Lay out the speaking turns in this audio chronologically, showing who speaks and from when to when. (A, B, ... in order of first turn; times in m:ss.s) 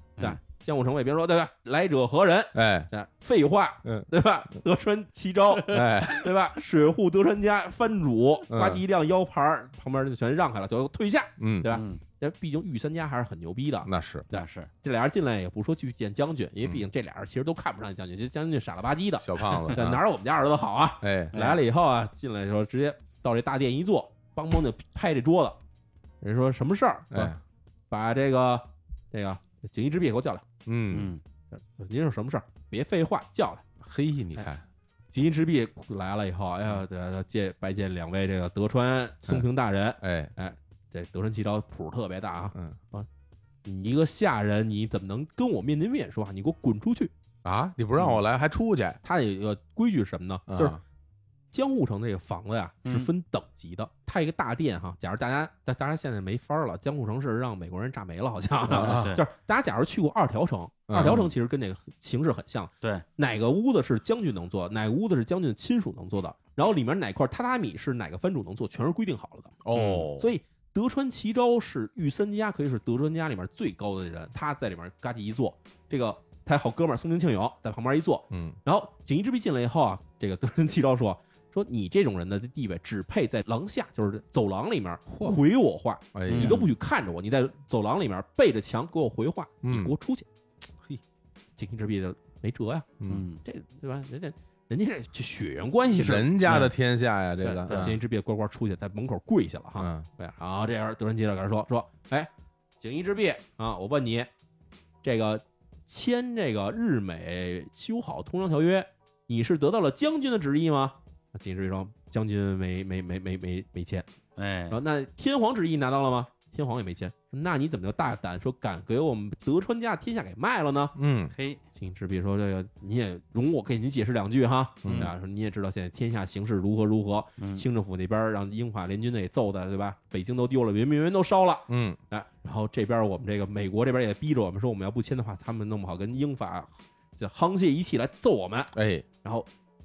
0:00.2-0:25.6 A
0:02.5-0:02.9 B
0:05.7-0:06.4 B
0:08.5-0:08.8 B
0:11.4-0:11.7 B
0:11.7-0:12.0 C
0:13.8-0:14.2 B
0:14.3-0:14.7 C
0:19.2-0:20.0 B
0:21.0-0:21.4 B
0:21.3-0:21.6 C
0:26.2-0:27.3 A
0:27.9-0:30.4 A
0:30.6-0:31.1 B
0:30.9-0:31.2 C
0:31.5-0:33.6 A
0:33.8-0:34.6 B
0:35.1-0:43.1 A
0:40.0-0:40.3 B
0:43.6-0:47.1 A
0:47.4-0:49.0 B
0:49.0-0:50.8 A
0:50.5-0:50.8 B
0:51.5-1:09.6 A
0:52.8-0:53.1 C
0:58.7-0:59.2 C
0:58.7-0:59.1 B
1:00.9-1:01.3 B
1:09.6-1:10.3 B
1:09.7-1:10.1 C
1:10.2-1:30.2 A
1:18.3-1:18.6 B
1:25.1-1:25.4 B
1:26.1-1:26.7 B
1:26.3-1:26.7 C
1:29.6-1:29.9 B
1:31.6-1:32.9 A
1:33.0-1:33.2 B
1:33.1-1:33.4 C
1:33.4-1:36.3 A
1:35.9-1:38.0 B
1:36.4-1:36.7 C
1:37.4-1:44.3 A
1:37.6-1:38.0 C
1:39.8-1:40.0 B
1:45.0-1:54.1 A
1:54.4-1:54.8 C
1:54.7-2:00.9 A
2:01.0-2:01.3 B
2:01.3-2:01.6 C
2:01.7-2:18.7 A
2:04.8-2:05.1 B
2:04.8-2:05.1 C
2:07.4-2:07.6 C
2:11.7-2:12.0 B
2:18.7-2:19.0 B